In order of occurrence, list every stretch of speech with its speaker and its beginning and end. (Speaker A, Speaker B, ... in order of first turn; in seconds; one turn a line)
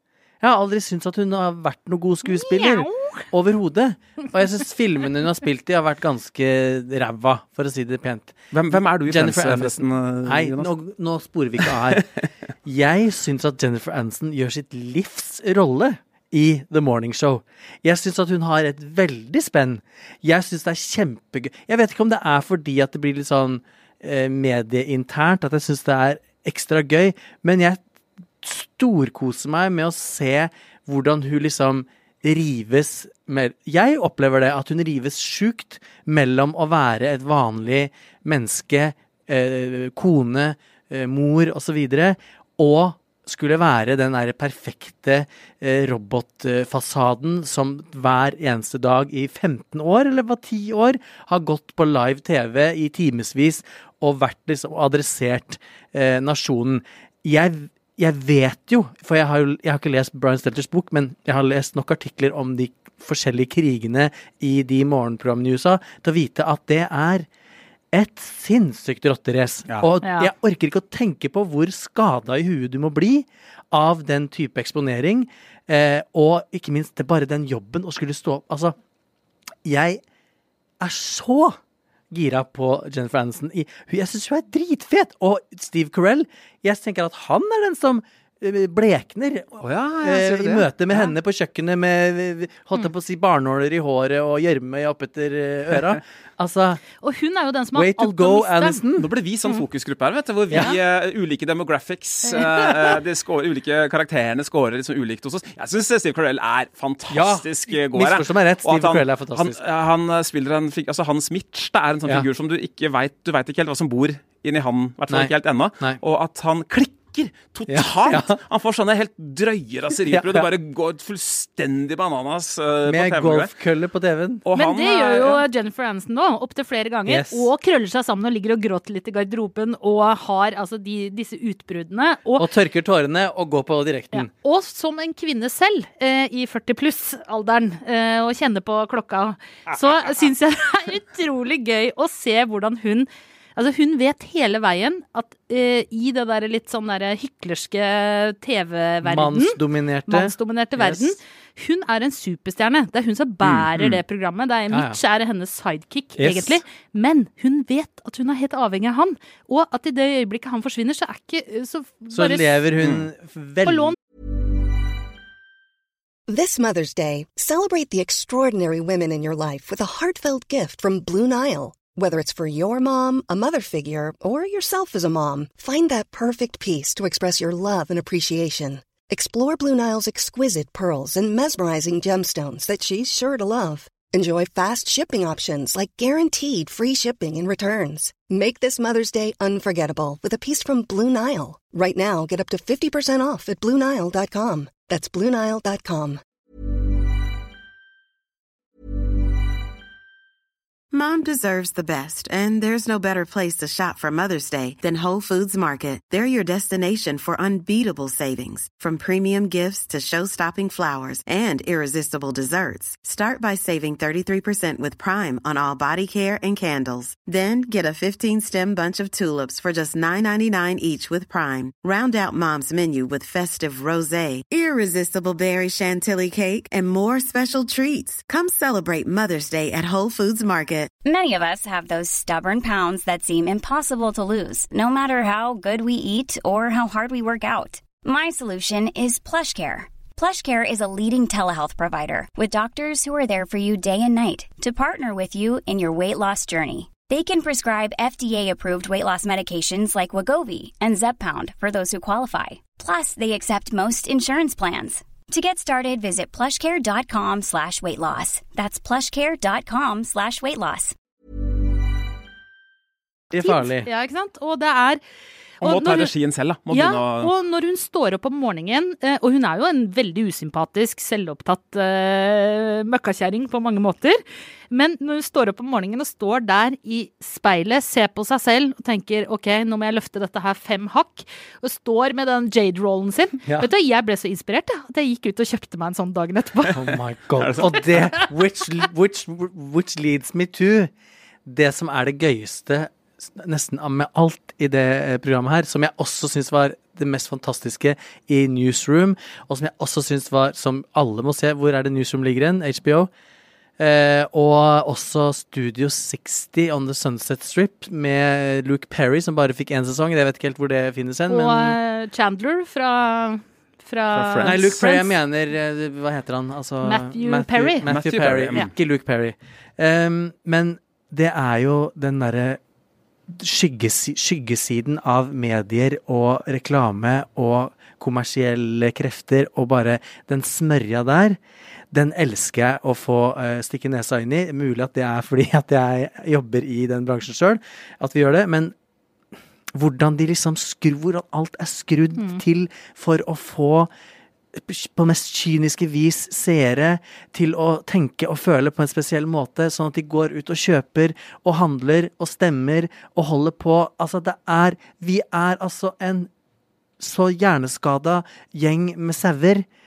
Speaker A: 0.4-12.1
Speaker B: 2.2-3.2
Speaker C: 8.5-10.7
Speaker C: 11.6-12.0
Speaker A: 12.7-27.8
Speaker A: 28.4-67.3
Speaker A: 67.9-78.8
Speaker B: 70.0-70.3
Speaker A: 79.7-80.0
Speaker A: 80.8-81.6
Speaker A: 82.1-96.8
Speaker C: 89.6-91.1
Speaker B: 97.0-98.8
Speaker A: 97.7-99.1
Speaker C: 99.0-123.5
Speaker A: 100.5-100.8
Speaker B: 102.3-102.7
Speaker A: 107.1-109.6
Speaker A: 115.1-116.0
Speaker A: 117.7-118.4
Speaker A: 120.1-120.5
Speaker A: 122.9-124.5
Speaker C: 124.5-125.5
Speaker B: 124.5-132.5
Speaker A: 127.1-127.5
Speaker A: 132.4-134.3
Speaker B: 134.1-162.6
Speaker A: 149.0-151.2
Speaker C: 153.4-154.0
Speaker A: 154.7-155.0
Speaker A: 156.2-156.6
Speaker A: 162.1-164.0
Speaker C: 162.8-163.1
Speaker B: 163.7-163.9
Speaker D: 166.3-196.2
Speaker E: 200.9-230.9
Speaker F: 231.0-261.0
Speaker A: 263.3-263.9
Speaker B: 263.4-265.0
Speaker B: 265.6-266.1
Speaker C: 265.6-267.3
Speaker B: 266.7-274.2
Speaker B: 274.7-286.8
Speaker A: 283.4-283.7
Speaker A: 286.7-290.9
Speaker C: 287.4-288.1
Speaker A: 291.5-303.1
Speaker A: 303.8-311.8
Speaker B: 311.3-315.2
Speaker C: 314.1-314.6
Speaker A: 314.4-322.6
Speaker B: 316.8-317.9
Speaker C: 317.9-318.7
Speaker A: 323.3-331.4
Speaker A: 331.9-338.8
Speaker A: 339.7-343.9
Speaker B: 342.2-342.4
Speaker A: 344.5-356.3
Speaker A: 357.0-359.7